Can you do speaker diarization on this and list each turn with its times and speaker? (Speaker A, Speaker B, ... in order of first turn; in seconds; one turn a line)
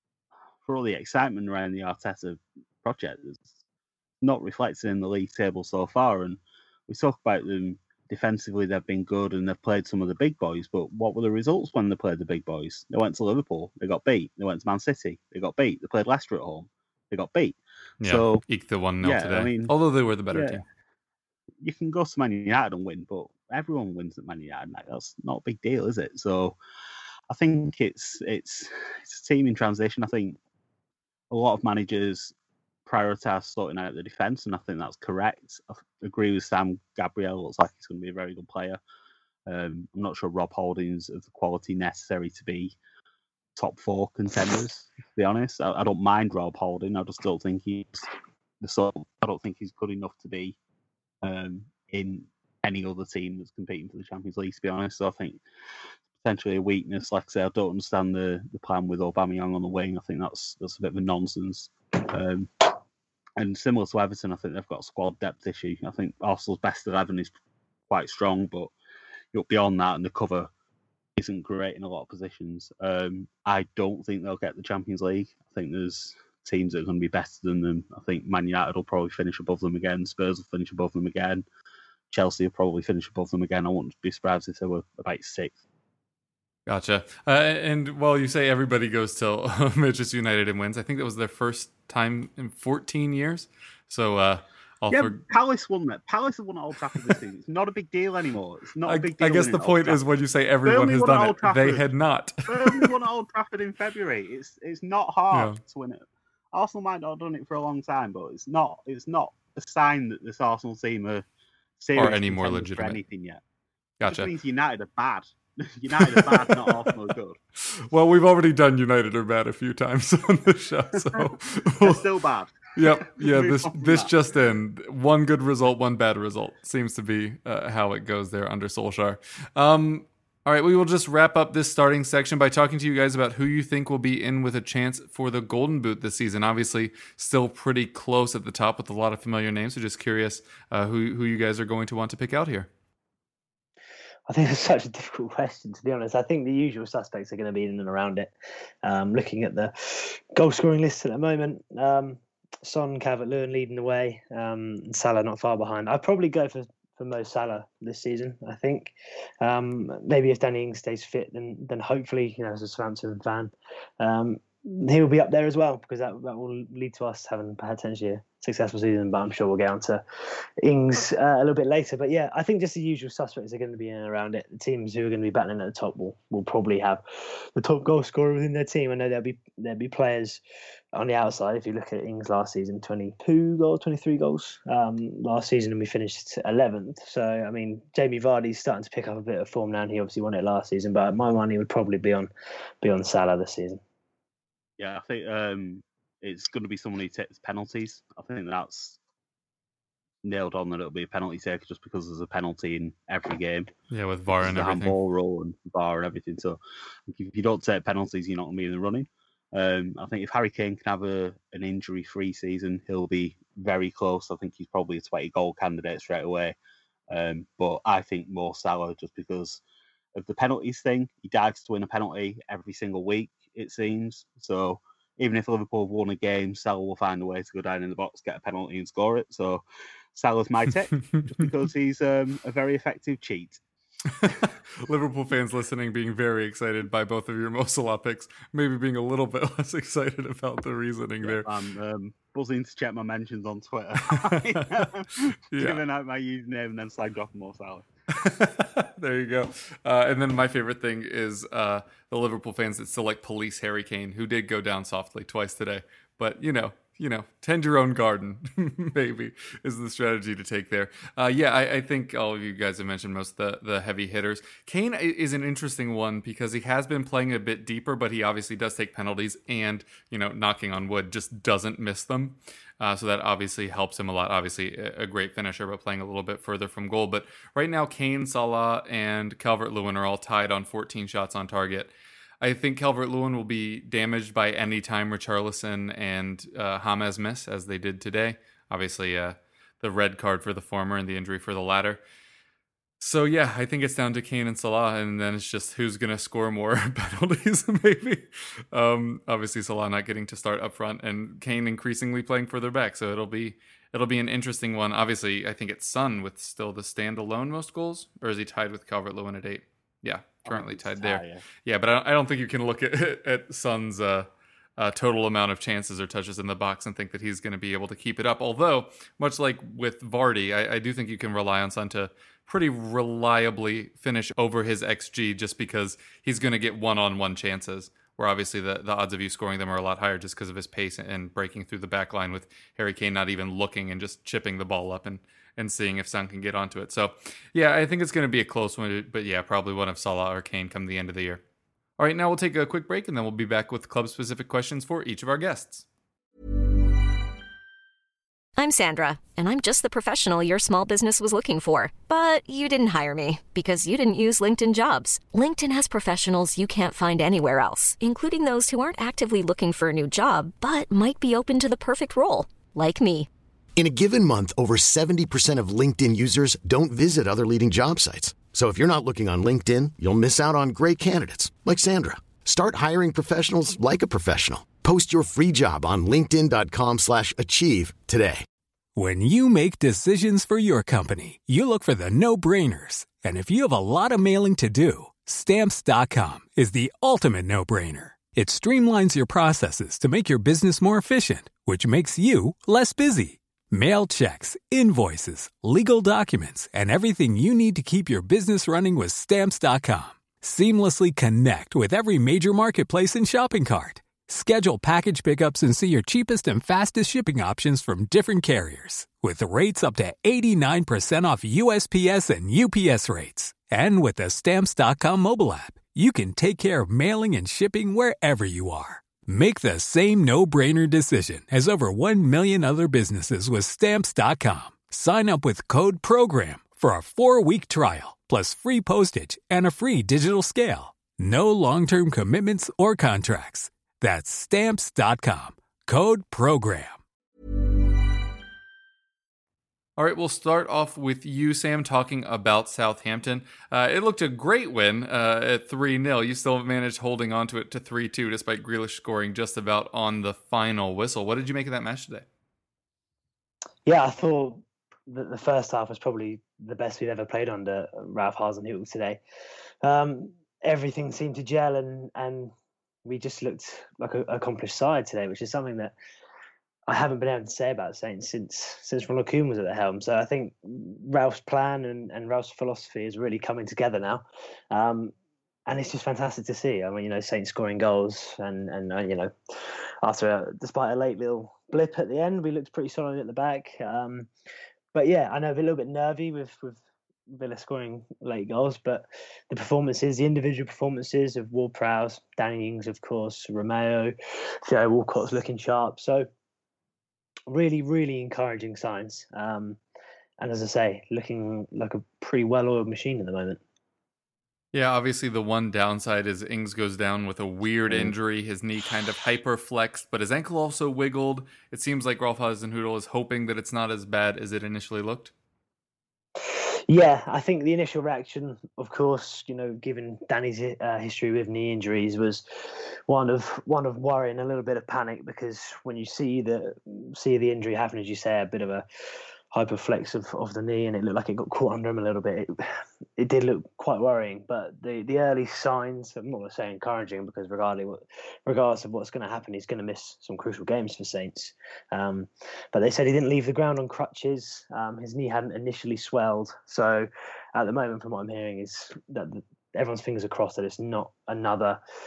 Speaker A: 0.6-3.5
Speaker A: 4.2-18.4
Speaker B: 18.0-20.6
Speaker A: 19.0-19.7
Speaker A: 20.3-20.6
Speaker A: 21.6-26.6
Speaker A: 27.3-30.4
Speaker A: 31.3-32.3
Speaker A: 32.9-38.8
Speaker A: 39.5-42.8
Speaker A: 43.6-48.1
Speaker A: 48.6-50.6
Speaker A: 51.2-55.4
Speaker A: 56.1-62.5
Speaker A: 63.4-67.3
Speaker A: 67.9-68.7
Speaker A: 69.3-70.5
Speaker A: 71.2-81.5
Speaker A: 82.1-85.6
Speaker B: 86.7-95.2
Speaker A: 94.9-100.0
Speaker B: 98.9-102.9
Speaker A: 100.7-101.8
Speaker A: 102.5-106.0
Speaker B: 105.3-105.6
Speaker A: 106.5-111.2
Speaker A: 111.8-113.4
Speaker B: 112.0-113.0
Speaker B: 114.0-114.3
Speaker A: 114.1-117.4
Speaker B: 116.0-116.9
Speaker B: 117.6-122.0
Speaker A: 121.8-124.1
Speaker B: 122.8-142.7
Speaker C: 144.3-148.3
Speaker C: 148.8-170.0
Speaker C: 170.6-177.0
Speaker C: 177.6-180.4
Speaker C: 180.9-192.3
Speaker C: 192.8-193.8
Speaker A: 194.8-199.0
Speaker A: 200.2-203.7
Speaker B: 203.9-205.0
Speaker A: 204.3-216.6
Speaker A: 217.1-219.6
Speaker A: 220.2-233.6
Speaker B: 234.2-241.5
Speaker A: 241.2-247.9
Speaker B: 244.1-244.8
Speaker B: 245.5-245.8
Speaker B: 248.1-292.0
Speaker B: 293.0-341.4
Speaker A: 310.5-311.5
Speaker B: 342.0-345.9
Speaker D: 348.6-363.3
Speaker E: 363.8-378.5
Speaker F: 378.9-437.0
Speaker B: 440.0-452.3
Speaker C: 453.9-459.2
Speaker C: 459.8-462.5
Speaker C: 463.1-465.9
Speaker C: 466.9-475.1
Speaker C: 475.7-484.3
Speaker C: 484.9-494.1
Speaker C: 494.6-496.3
Speaker C: 497.5-499.8
Speaker C: 500.4-503.6
Speaker B: 504.7-515.3
Speaker C: 516.5-528.9
Speaker C: 529.5-532.5
Speaker C: 533.2-551.8